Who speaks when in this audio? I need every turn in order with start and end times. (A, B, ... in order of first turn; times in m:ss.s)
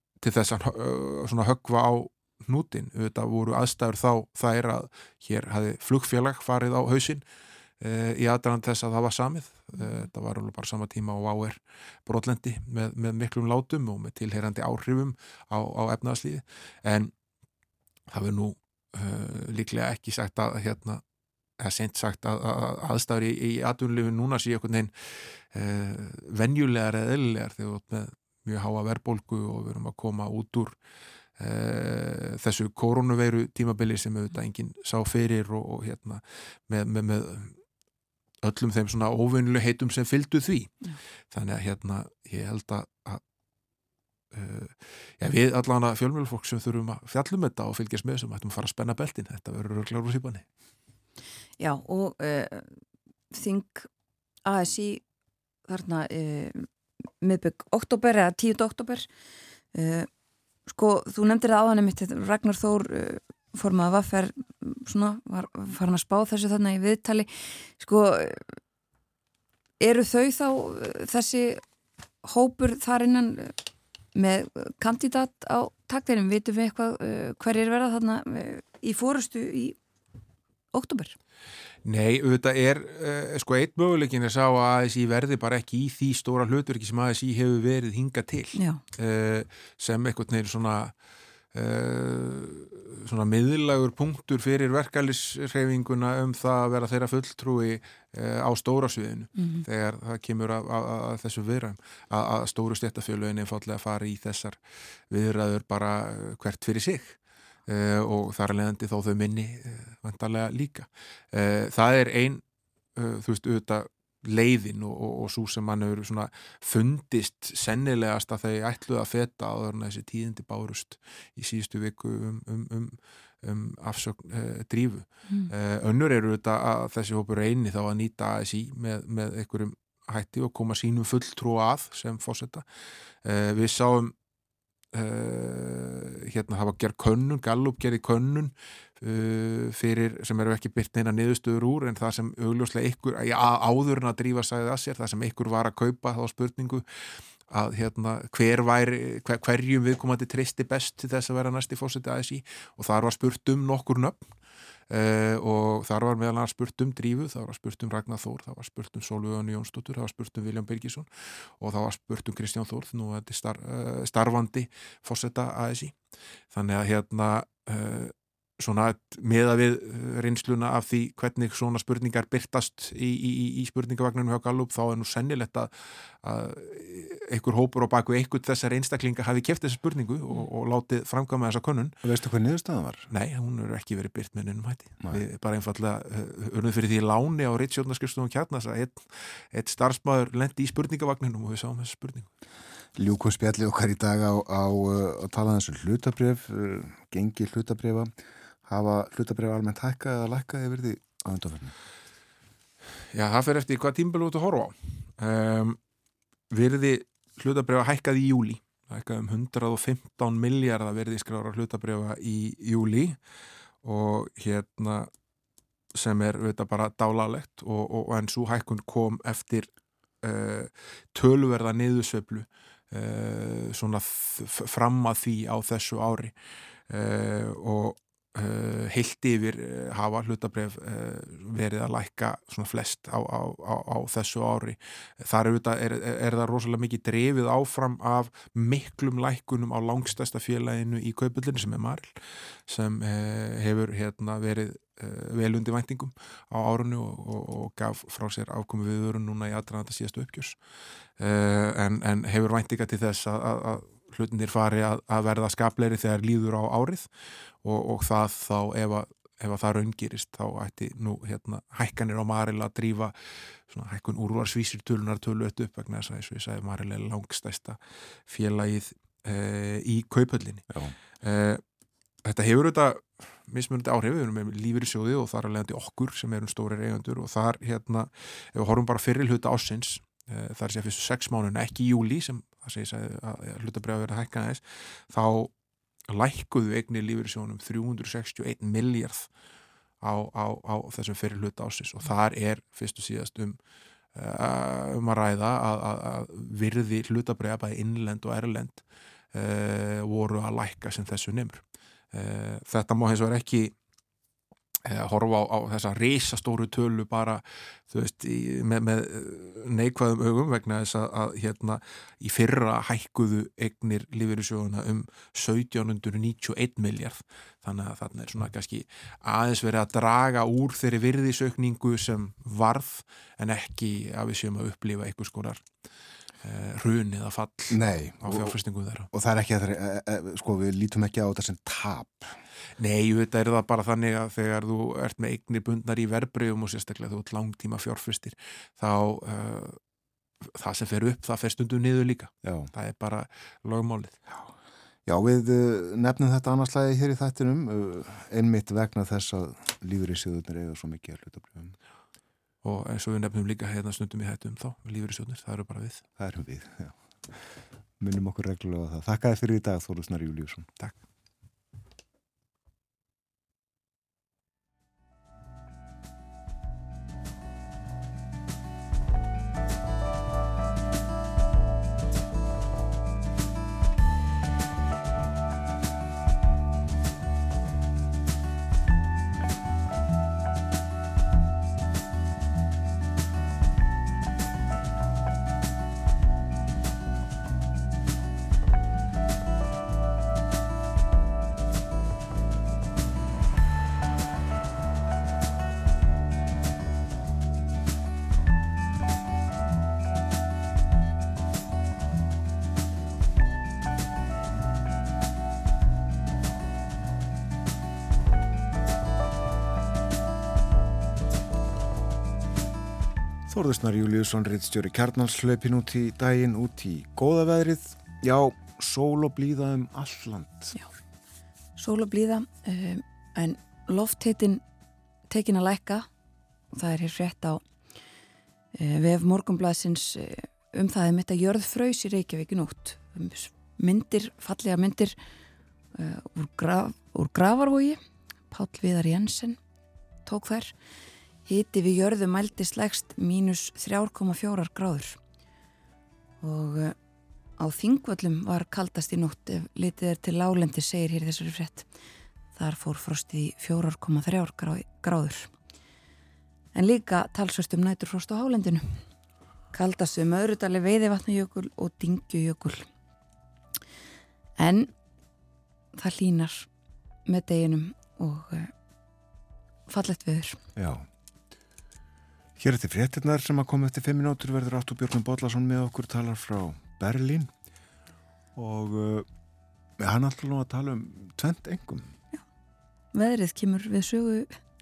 0:00.2-0:07.2 A
0:07.8-0:17.1 A
0:18.1-0:21.0 A
0:21.6-0:24.9 A
0:25.5-0:30.8 A
0:31.4-0:37.6 A
0:38.4-0:40.7 A
0:41.3-0:43.2 A
0:44.3-0:50.4 A
0:51.6-0:52.8 B
0:53.3-0:53.9 B
0:54.4-0:55.0 B
0:55.7-0:56.7 B
0:57.2-0:59.1 B
0:59.7-1:00.1 B
1:00.7-1:08.4 B
1:09.8-1:11.6 B
1:12.2-1:13.5 B
1:14.1-1:19.8 B
1:20.7-1:21.2 B
1:21.8-1:30.9 A
1:28.5-1:28.8 B
1:31.5-1:44.6 A
1:39.4-1:39.6 B
1:45.1-1:52.4 A
1:53.0-2:12.6 A
2:13.2-2:14.1 A
2:14.9-2:26.8 A
2:27.5-2:34.2 A
2:34.9-2:41.1 A
2:41.6-2:45.9 A
2:46.5-2:55.7 A
2:56.2-3:02.0 A
3:02.0-3:03.1 C
3:03.1-3:12.3 A
3:13.0-3:18.1 C
3:18.6-3:21.7 C
3:23.1-3:25.8 A
3:26.5-3:33.2 A
3:33.8-3:35.1 A
3:35.9-3:39.7 A
3:40.2-3:46.3 A
3:46.9-4:02.1 A
4:02.7-4:10.6 A
4:11.2-4:17.1 A
4:17.6-4:23.1 A
4:23.7-4:30.6 A
4:31.2-4:31.6 A
4:32.2-4:45.5 A
4:46.1-4:49.3 A
4:50.0-4:53.6 A
4:54.1-4:58.8 A
4:59.3-5:03.7 A
5:04.9-5:25.6 A
5:26.4-5:29.1 A
5:27.7-5:28.6 C
5:29.1-5:32.3 C
5:32.8-5:39.8 A
5:40.6-5:44.2 A
5:42.4-5:42.7 C
5:45.0-5:51.7 C
5:52.6-5:56.0 A
5:56.2-5:57.0 C
5:58.0-6:00.7 C
6:53.5-7:00.7 C
7:01.8-7:04.6 B
7:05.3-7:06.1 B
7:06.7-7:07.6 B
7:08.8-7:15.2 B
7:16.0-7:19.6 B
7:20.2-7:20.7 B
7:21.5-7:25.2 B
7:26.4-7:26.9 B
7:27.6-7:31.9 B
7:32.6-7:35.5 B
7:36.7-7:39.0 B
7:39.7-7:42.9 B
7:44.6-7:44.9 B
7:46.0-7:46.7 B
7:47.3-7:48.7 B
7:49.9-7:50.6 B
7:50.8-7:51.1 C
7:52.6-7:57.5 C
7:58.6-7:59.3 C
8:00.0-8:02.1 C
8:03.1-8:04.6 B